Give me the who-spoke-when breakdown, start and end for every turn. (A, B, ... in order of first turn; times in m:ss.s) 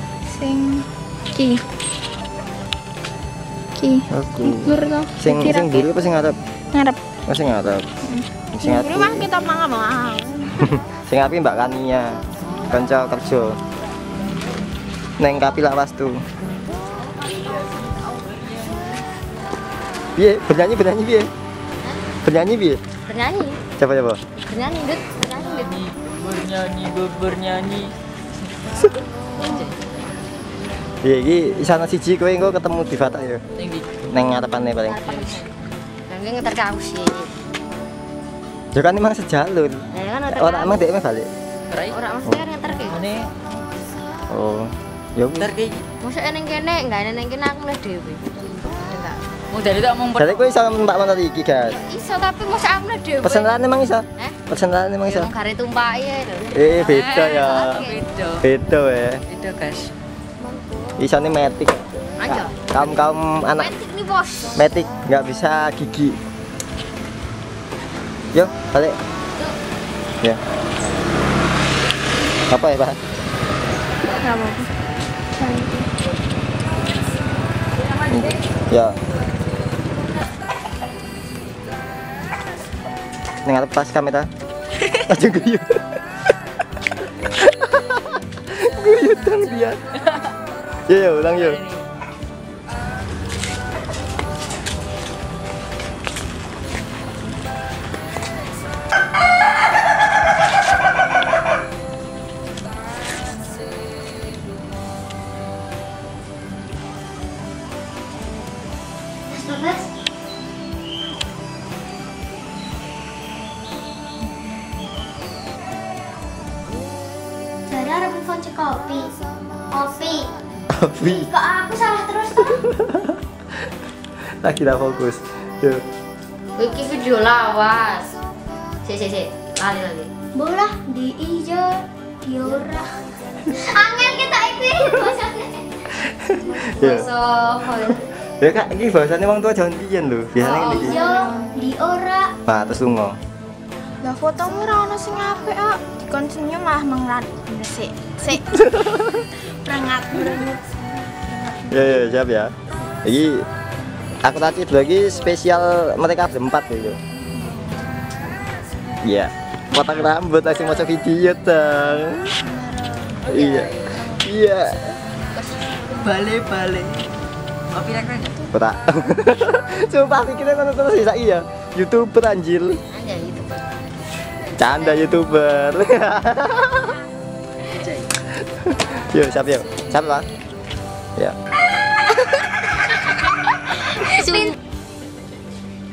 0:00.3-0:01.6 A
0:03.8-0:05.8 A
0:04.1-0:06.4 B
0:06.7-0:07.1 A
0:07.3-0:07.8 B
0:08.0-0:10.6 A
0:08.5-0:09.3 B
0:10.6-0:13.6 B
0:15.2-0:16.2 B
0:17.3-0:18.9 C
0:20.2-0:21.3 B
0:22.2-0:22.8 B
0:23.0-0:23.6 D
0:23.8-0:24.2 B
0:24.4-0:25.8 D
0:25.4-0:27.9 C
0:29.4-0:29.7 C
0:31.0-0:33.4 B
0:33.6-0:34.0 C
0:34.1-0:35.2 B
0:34.8-0:35.5 D
0:35.1-0:35.5 C
0:36.1-0:37.3 D
0:38.7-0:41.3 B
0:39.9-0:40.9 D
0:41.9-0:43.0 D
0:42.9-0:43.3 C
0:44.3-0:45.6 B
0:45.4-0:45.8 C
0:46.0-0:49.2 D
0:49.5-0:50.5 C
0:50.2-0:51.8 B
0:51.6-0:53.5 D
0:53.2-0:55.3 B
0:55.0-0:58.0 D
0:56.5-0:57.8 B
0:56.8-0:58.4 C
0:58.4-0:59.2 B
0:59.3-0:59.9 C
1:01.0-1:03.7 B
1:02.2-1:04.5 D
1:04.5-1:06.2 B
1:08.3-1:09.0 B
1:12.5-1:13.0 B
1:14.2-1:14.7 A
1:15.4-1:15.9 A
1:18.0-1:19.0 B
1:23.4-1:24.3 B
1:25.0-1:26.0 B
1:27.3-1:29.8 B
1:30.9-1:31.6 B
1:31.4-1:31.8 C
1:49.3-1:49.9 E
1:57.7-1:59.1 E
1:59.7-2:00.3 E
2:00.7-2:01.3 B
2:01.0-2:02.7 E
2:02.6-2:03.2 B
2:04.4-2:05.8 B
2:06.6-2:08.1 D
2:08.8-2:10.1 D
2:10.3-2:15.9 E
2:16.0-2:17.1 B
2:16.5-2:18.1 D
2:18.2-2:21.1 B
2:20.4-2:21.0 D
2:20.4-2:22.4 E
2:21.1-2:21.6 A
2:22.4-2:23.2 B
2:24.0-2:28.5 A
2:28.5-2:29.2 B
2:29.4-2:30.6 A
2:31.3-2:32.0 A
2:31.7-2:32.5 B
2:33.0-2:33.4 B
2:34.2-2:37.0 B
2:37.3-2:37.9 A
2:39.0-2:42.4 B
2:42.4-2:43.3 A
2:43.2-2:44.9 B
2:43.3-2:43.6 D
2:43.4-2:43.7 C
2:45.3-2:45.8 D
2:45.9-2:47.1 C
2:47.7-2:48.4 C
2:48.5-2:52.8 B
2:52.9-2:53.6 D
2:54.6-2:57.0 B
2:54.6-2:55.1 D
2:57.8-2:58.0 C
2:58.6-3:00.2 B
3:03.8-3:04.5 D
3:04.0-3:04.5 E